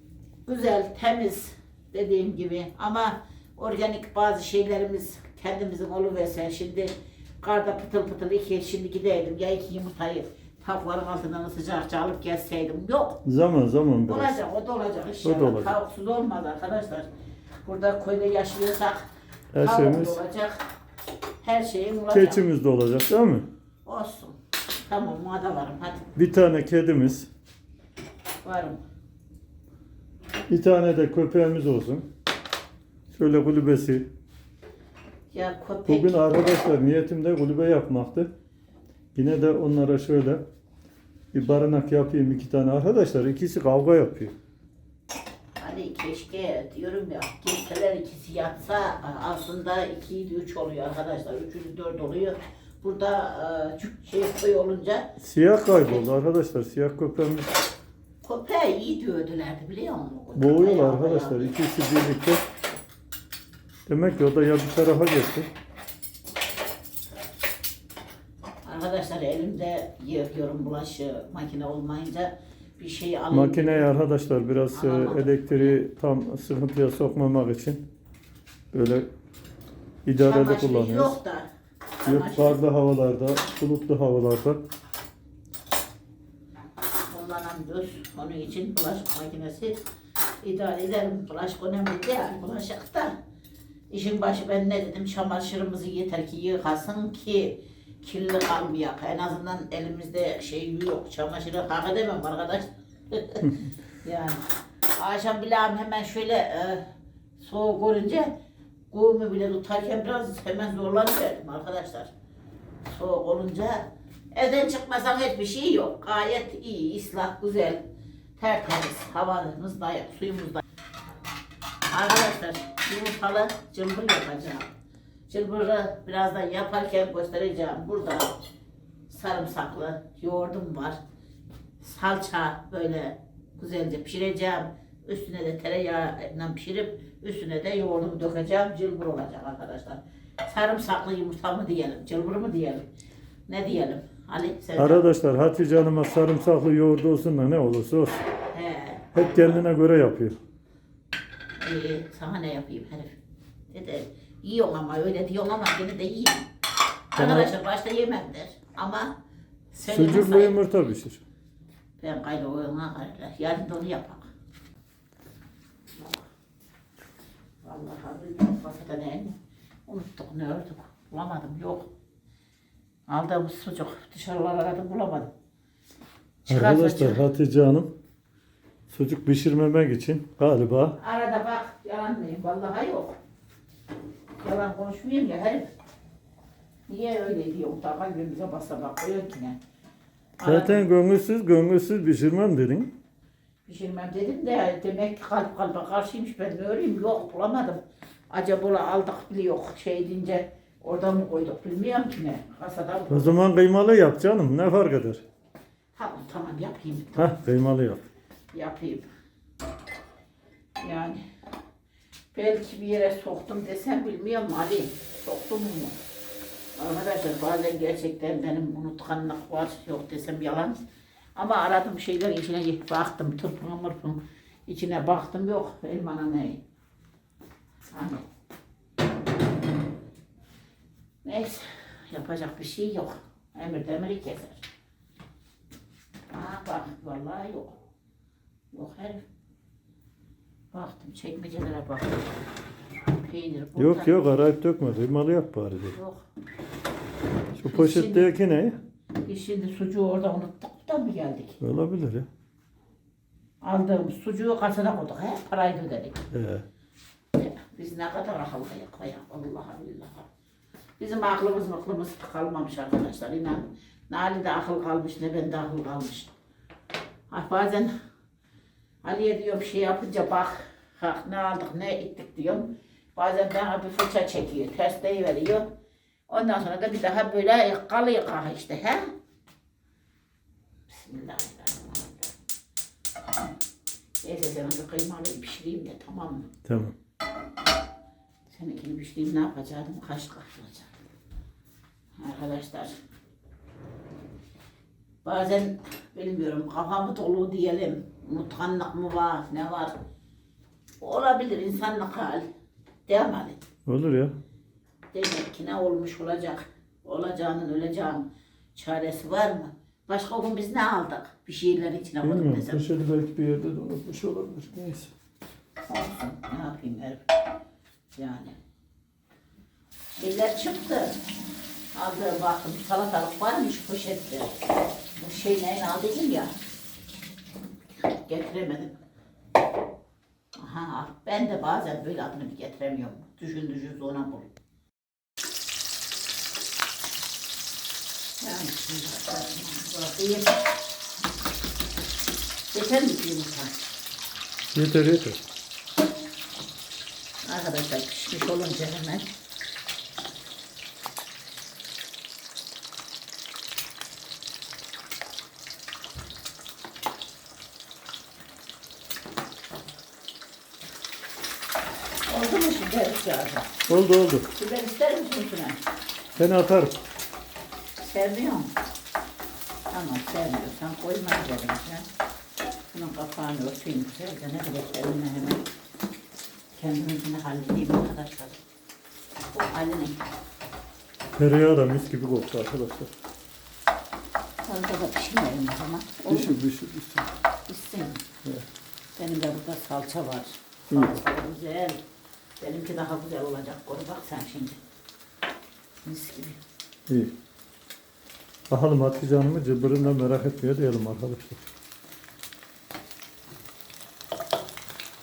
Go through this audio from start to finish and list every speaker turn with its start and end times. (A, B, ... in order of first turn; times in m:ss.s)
0:00.4-0:13.2 A
0:13.2-0:14.4 B
0:14.0-0:17.1 A
0:15.2-0:15.8 B
0:17.6-0:19.1 A
0:19.5-0:20.2 B
0:19.6-0:20.6 A
0:21.4-0:22.4 A
0:22.1-0:23.5 B
0:23.8-0:26.1 A
0:26.1-0:27.3 B
0:28.4-0:28.8 A
0:30.5-0:32.1 B
0:33.1-0:34.1 B
0:35.3-0:36.2 A
0:35.9-0:38.3 B
0:39.1-0:40.4 B
0:41.3-0:44.4 B
0:45.6-0:55.1 A
0:55.2-0:57.6 B
0:55.7-0:56.1 A
0:58.2-1:01.5 A
1:00.4-1:02.4 B
1:03.9-1:05.5 B
1:08.6-1:13.9 A
1:13.3-1:17.9 B
1:14.7-1:15.8 A
1:18.7-1:19.1 B
1:20.0-1:21.2 B
1:20.2-1:21.5 A
1:22.0-1:22.6 A
1:22.0-1:24.6 B
1:27.1-1:29.8 A
1:30.4-1:33.2 A
1:33.9-1:44.4 A
1:45.0-1:46.9 A
1:47.4-1:48.3 A
1:48.9-1:52.1 A
1:52.8-1:57.8 A
1:58.4-2:00.6 A
2:01.9-2:04.7 A
2:05.3-2:08.4 A
2:09.1-2:11.0 A
2:11.8-2:22.8 A
2:23.5-2:25.0 A
2:24.8-2:28.2 B
2:28.5-2:29.6 A
2:29.1-2:30.4 B
2:31.6-2:33.2 A
2:33.7-2:36.5 A
2:37.1-2:39.2 A
2:37.2-2:37.5 B
2:39.7-2:40.6 A
2:39.9-2:41.2 B
2:42.0-2:44.3 A
2:46.0-2:46.2 A
2:47.6-2:51.9 A
2:53.1-2:55.3 A
2:56.4-2:57.9 B
2:56.5-2:57.2 A
2:58.9-3:01.0 B
3:01.0-3:03.2 A
3:04.4-3:05.7 A
3:06.9-3:09.6 A
3:10.4-3:10.8 A
3:10.4-3:12.9 B
3:13.7-3:23.4 A
3:23.1-3:25.2 B
3:26.0-3:27.3 A
3:27.2-3:28.0 B
3:28.5-3:29.1 A
3:30.8-3:31.2 A
3:32.3-3:36.0 A
3:36.8-3:40.8 A
3:41.4-3:46.6 A
3:47.9-3:48.2 A
3:51.2-3:54.6 A
3:56.3-3:57.8 A
3:58.7-3:59.2 A
4:00.7-4:02.3 A
4:03.1-4:04.2 A
4:03.8-4:06.0 B
4:05.9-4:06.2 A
4:07.6-4:08.8 B
4:07.7-4:08.3 A
4:09.2-4:11.6 A
4:11.6-4:12.3 B
4:13.6-4:16.2 A
4:16.3-4:16.6 B
4:17.3-4:20.3 A
4:21.0-4:26.3 A
4:27.3-4:27.9 A
4:29.0-4:35.7 A
4:36.3-4:39.1 A
4:40.9-4:42.3 A
4:44.2-4:46.5 A
4:46.6-4:47.0 B
4:48.5-4:50.9 A
4:52.2-4:53.0 A
4:55.2-4:59.9 A
5:01.0-5:02.4 A
5:03.1-5:03.6 A
5:03.8-5:04.4 B
5:05.1-5:12.8 A
5:12.2-5:15.1 B
5:15.9-5:17.2 A
5:18.1-5:18.6 A
5:20.1-5:21.2 A
5:21.9-5:24.6 A
5:25.2-5:26.5 A
5:28.1-5:28.9 A
5:30.6-5:34.5 A
5:38.4-5:40.6 A
5:42.7-5:43.8 A
5:44.7-5:45.4 B
5:47.4-5:49.3 A
6:02.3-6:03.7 A
6:03.9-6:04.5 B
6:04.5-6:05.8 A
6:06.4-6:07.0 B
6:08.0-6:08.7 A
6:09.9-6:12.1 A
6:12.9-6:15.6 A
6:16.7-6:18.6 A
6:19.5-6:20.2 A
6:21.3-6:23.1 B
6:24.6-6:26.5 A
6:26.2-6:27.3 B
6:27.7-6:28.2 A
6:29.2-6:32.0 A
6:30.9-6:31.2 B
6:32.6-6:34.8 A
6:36.0-6:36.6 A
6:37.1-6:37.3 B
6:38.7-6:41.6 B